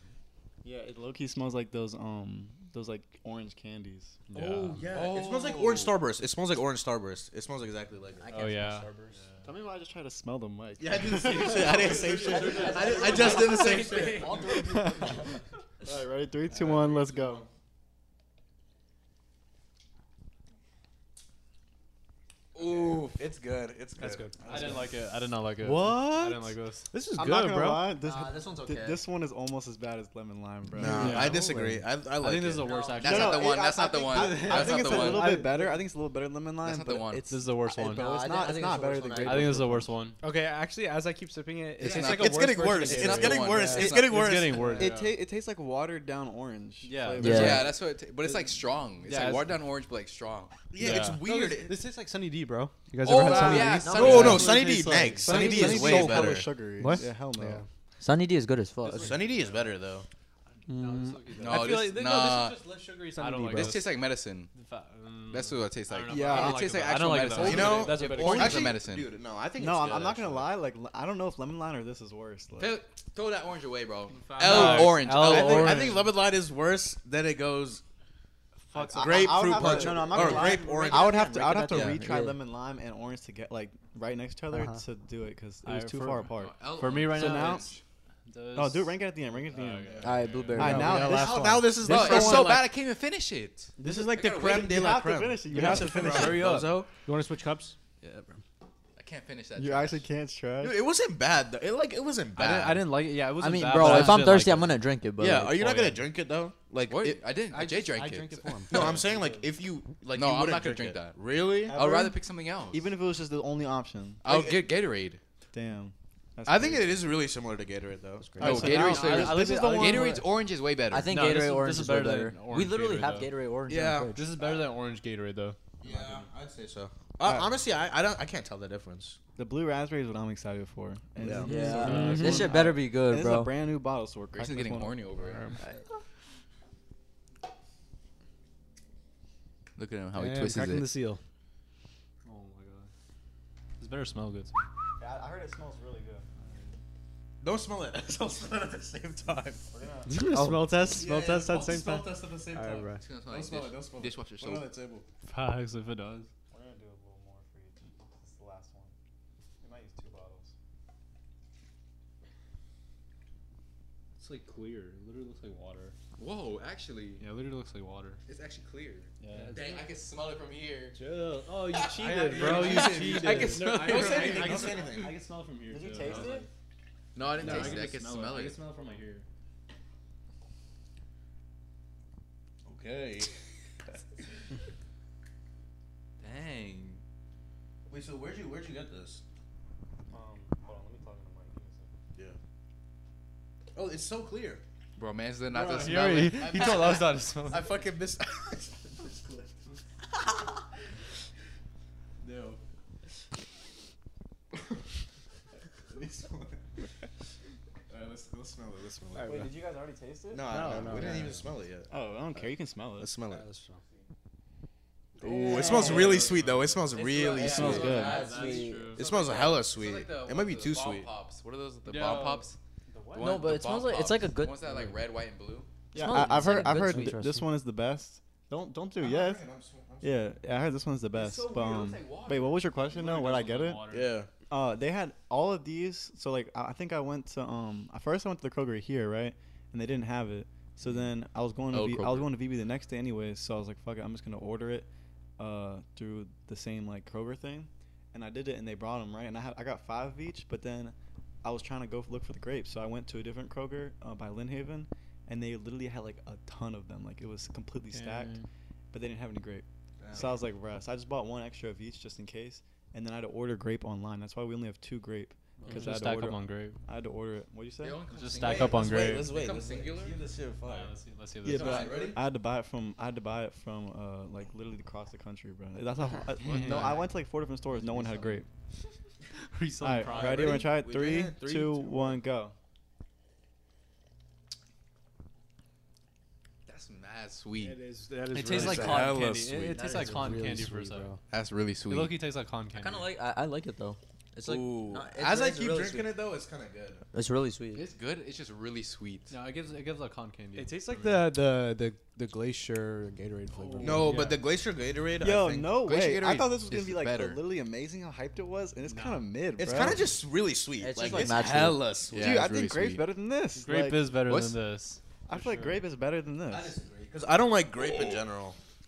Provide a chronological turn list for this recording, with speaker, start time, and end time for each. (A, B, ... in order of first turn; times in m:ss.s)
0:00.6-0:04.2 A
0:04.3-0:04.8 B
0:04.3-0:08.3 C
0:04.8-0:06.0 D
0:08.2-0:09.2 E
0:08.3-0:09.4 B
0:09.4-0:13.4 A
0:10.8-0:14.5 C
0:11.7-0:12.0 B
0:11.8-0:15.4 E
0:12.5-0:12.8 B
0:12.6-0:14.4 D
0:14.4-0:17.5 A
0:16.6-0:17.5 C
0:22.5-0:23.2 D
0:22.6-0:24.9 C
0:24.0-0:24.8 F
0:24.4-0:26.9 B
0:25.6-0:26.6 A
0:25.7-0:26.2 F
0:26.9-0:28.0 F
0:27.1-0:31.4 A
0:28.0-0:29.0 E
0:30.7-0:32.8 C
0:31.0-0:31.4 B
0:31.0-0:31.8 F
0:32.2-0:33.5 B
0:32.7-0:33.1 E
0:33.0-0:35.4 D
0:33.0-0:40.0 A
0:34.2-0:35.9 F
0:36.6-0:37.3 D
0:37.3-0:38.1 B
0:37.8-0:39.7 E
0:39.2-0:40.2 B
0:40.2-0:45.1 F
0:41.8-0:44.8 C
0:41.8-0:44.1 D
0:43.4-0:44.0 A
0:43.7-0:45.2 B
0:44.5-0:47.8 A
0:46.8-0:47.6 B
0:47.2-0:47.7 E
0:47.2-0:50.6 D
0:49.1-0:49.4 B
0:50.7-0:51.8 C
0:50.8-0:51.2 B
0:50.8-0:57.7 F
0:53.0-0:54.5 D
0:53.8-0:54.5 E
0:54.0-0:56.5 C
0:55.2-0:57.6 A
0:58.0-0:59.3 E
0:58.9-1:00.1 C
0:59.4-0:59.7 B
1:00.7-1:03.8 F
1:00.7-1:03.9 B
1:01.4-1:02.6 D
1:03.5-1:04.5 D
1:04.5-1:08.6 B
1:05.3-1:09.1 D
1:06.1-1:06.7 A
1:07.4-1:08.5 F
1:07.4-1:10.5 C
1:09.6-1:12.8 A
1:12.6-1:16.0 D
1:14.1-1:15.0 B
1:14.4-1:16.1 F
1:14.4-1:17.8 C
1:18.7-1:27.8 A
1:18.8-1:19.7 F
1:19.0-1:22.0 C
1:20.1-1:22.4 E
1:24.5-1:24.8 F
1:25.6-1:27.7 B
1:26.4-1:27.8 D
1:28.3-1:30.9 B
1:28.6-1:30.0 A
1:29.8-1:32.7 C
1:30.0-1:31.2 E
1:30.6-1:32.6 A
1:30.6-1:31.6 F
1:31.8-1:34.7 D
1:33.8-1:36.5 A
1:33.8-1:36.9 C
1:35.5-1:38.4 F
1:39.0-1:40.1 D
1:39.6-1:40.8 A
1:40.6-1:42.9 C
1:42.4-1:44.8 B
1:43.2-1:44.6 F
1:43.4-1:45.8 E
1:45.2-1:47.2 C
1:46.9-1:48.9 D
1:47.5-1:49.0 F
1:48.7-1:51.8 C
1:48.9-1:49.4 A
1:50.1-1:52.9 D
1:51.7-1:54.2 A
1:54.2-1:55.2 D
1:54.2-1:54.6 C
1:55.5-1:57.0 A
1:56.4-1:58.4 C
1:58.2-2:00.2 F
1:58.4-2:01.1 D
1:58.4-2:00.2 A
1:58.7-1:59.3 E
2:00.9-2:04.3 E
2:01.1-2:03.3 B
2:01.1-2:01.4 F
2:03.7-2:04.6 C
2:04.1-2:05.6 B
2:05.8-2:09.2 C
2:07.2-2:07.5 A
2:09.4-2:15.1 A
2:11.2-2:11.5 C
2:11.4-2:12.6 F
2:11.4-2:13.6 E
2:11.8-2:12.5 B
2:14.3-2:15.6 D
2:15.2-2:15.6 F
2:19.8-2:20.9 D
2:20.1-2:21.2 F
2:22.2-2:22.9 B
2:23.8-2:24.7 B
2:25.0-2:26.3 A
2:27.4-2:29.7 C
2:29.7-2:30.4 A
2:30.1-2:33.0 F
2:30.9-2:35.1 C
2:33.0-2:34.7 D
2:35.2-2:36.3 B
2:36.5-2:38.9 A
2:39.6-2:40.5 A
2:44.2-2:46.0 B
2:46.2-2:47.3 D
2:47.2-2:48.2 B
2:48.2-2:54.9 D
2:49.2-2:49.8 B
2:49.3-2:49.8 F
2:51.0-2:54.6 F
2:51.0-2:56.5 B
2:52.2-2:55.2 C
2:55.7-2:56.5 A
2:57.2-2:58.7 D
2:57.3-2:59.3 B
2:57.4-2:57.9 F
3:02.7-3:03.3 C
3:06.2-3:07.0 D
3:07.9-3:09.2 C
3:10.1-3:11.9 A
3:13.7-3:14.6 C
3:15.0-3:17.1 D
3:15.5-3:17.7 F
3:16.4-3:19.6 C
3:22.2-3:22.6 C
3:25.9-3:26.6 C
3:27.9-3:29.5 C
3:29.2-3:29.5 F
3:29.2-3:31.2 A
3:30.3-3:31.9 C
3:30.4-3:31.5 F
3:31.9-3:33.1 A
3:33.0-3:33.4 C
3:33.2-3:33.8 F
3:35.2-3:38.0 C
3:35.4-3:36.2 F
3:35.6-3:36.1 A
3:35.8-3:36.9 B
3:36.9-3:42.6 D
3:37.4-3:38.2 A
3:37.5-3:39.0 E
3:37.5-3:39.0 B
3:39.0-3:41.1 C
3:41.8-3:42.5 B
3:42.9-3:43.3 F
3:43.1-3:45.7 D
3:43.2-3:44.6 E
3:45.9-3:49.4 A
3:45.9-3:47.2 E
3:46.3-3:47.5 F
3:49.0-3:50.4 C
3:50.0-3:53.8 A
3:51.1-3:52.7 D
3:52.8-3:54.1 B
3:53.9-3:54.3 C
3:54.5-4:18.4 A
4:01.7-4:02.3 D
4:17.9-4:18.5 B
4:18.9-4:28.0 A
4:20.0-4:20.4 C
4:25.6-4:26.8 B
4:27.8-4:30.2 D
4:28.1-4:29.3 B
4:28.4-4:30.9 C
4:30.6-4:32.1 B
4:31.4-4:32.2 C
4:31.5-4:38.5 A
4:31.6-4:31.9 D
4:36.4-4:37.1 B
4:37.9-4:38.3 B
4:39.3-4:40.8 B
4:39.8-4:42.6 A
4:40.1-4:42.2 C
4:46.7-4:47.8 D
4:47.6-4:51.2 F
4:48.4-4:51.1 B
4:48.4-4:49.8 C
4:49.8-4:50.4 E
4:51.3-4:52.2 D
4:51.9-4:53.1 B
4:52.7-4:56.1 E
4:54.4-4:57.0 C
4:57.1-4:57.9 E
4:57.7-4:59.3 D
4:59.3-5:01.4 B
5:00.6-5:04.2 F
5:03.7-5:04.4 B
5:03.8-5:05.8 C
5:05.2-5:10.1 A
5:05.8-5:07.4 D
5:08.9-5:09.3 B
5:09.6-5:12.4 C
5:10.8-5:11.9 E
5:11.0-5:11.3 A
5:12.1-5:13.1 D
5:12.1-5:14.1 A
5:13.6-5:15.8 B
5:14.2-5:14.6 D
5:15.3-5:16.8 A
5:16.5-5:18.6 C